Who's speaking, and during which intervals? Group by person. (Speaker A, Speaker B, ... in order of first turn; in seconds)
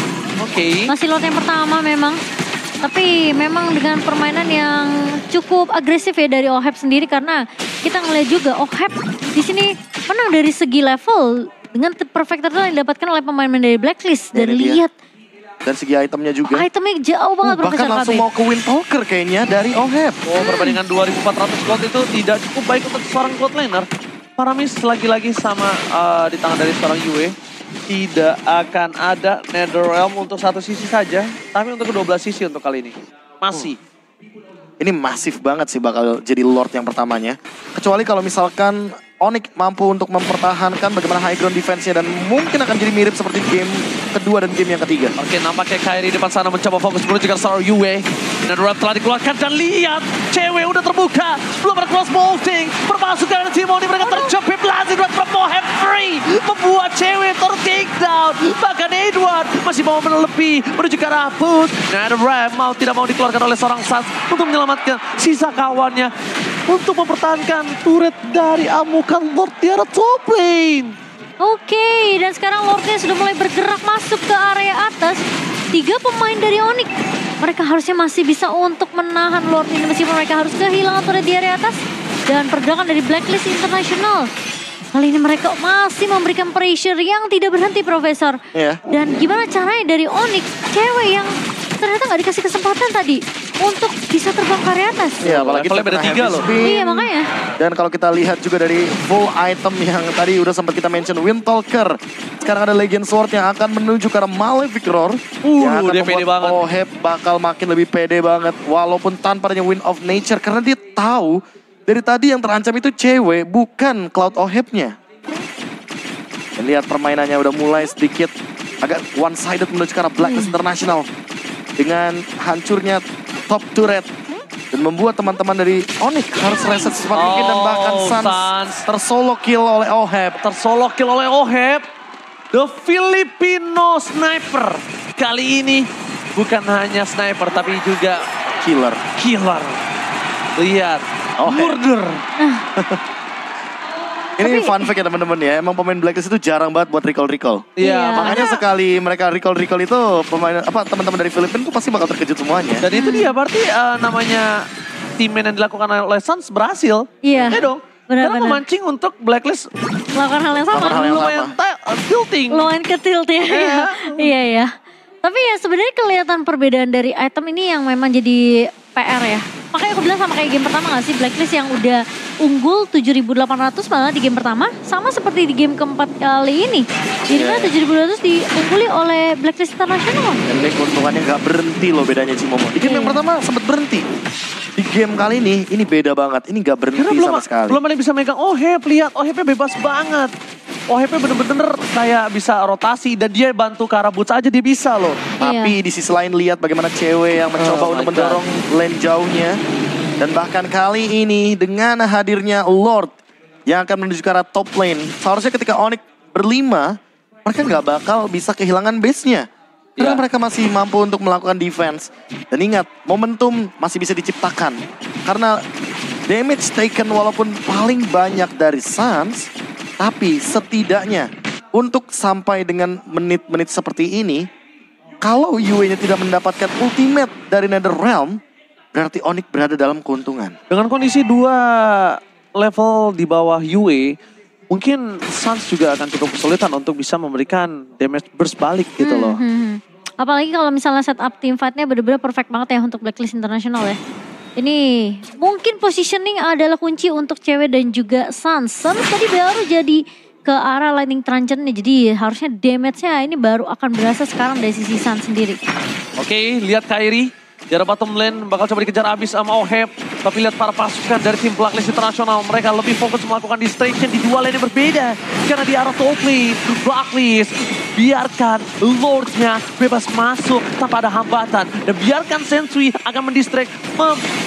Speaker A: 0.4-0.9, 20.2-23.9, 24.4-27.3, 27.9-33.8, 45.2-66.1, 66.7-70.9, 95.2-96.5, 105.4-106.6, 127.1-128.8, 130.4-131.8, 132.5-138.2, 139.2-139.8, 140.6-142.2, 147.8-148.4, 152.8-154.6, 155.2-159.7, 160.7-162.7, 163.5-164.3, 186.9-190.3, 190.9-195.3, 197.5-198.4, 210.0-210.2, 230.7-234.1, 234.7-239.4, 256.2-274.2
Speaker B: 0.9-2.2, 2.8-14.9, 16.5-18.3, 20.4-20.8, 54.0-54.3, 71.4-76.9, 77.4-84.3, 84.9-88.4, 88.9-91.3, 91.8-95.2, 96.5-97.2, 142.4-142.6, 144.4-144.9, 147.8-148.6, 152.9-153.3, 157.2-158.6, 160.2-160.9, 162.5-164.7, 165.2-180.4, 182.8-183.2, 195.4-195.8, 239.0-244.0, 244.6-255.6
Speaker C: 14.3-14.8, 15.6-16.7, 17.4-20.2, 34.8-45.1, 88.5-88.8, 95.2-114.9, 116.6-121.1, 121.8-124.1, 124.7-130.4, 138.6-139.0, 141.4-141.8, 144.4-152.8, 157.3-157.7, 160.7-161.6, 177.3-177.7, 180.5-184.0, 184.8-187.8, 195.4-199.6, 200.2-206.9, 207.4-209.4, 210.0-215.6, 216.3-219.5, 220.0-224.4, 225.2-228.4, 228.9-230.5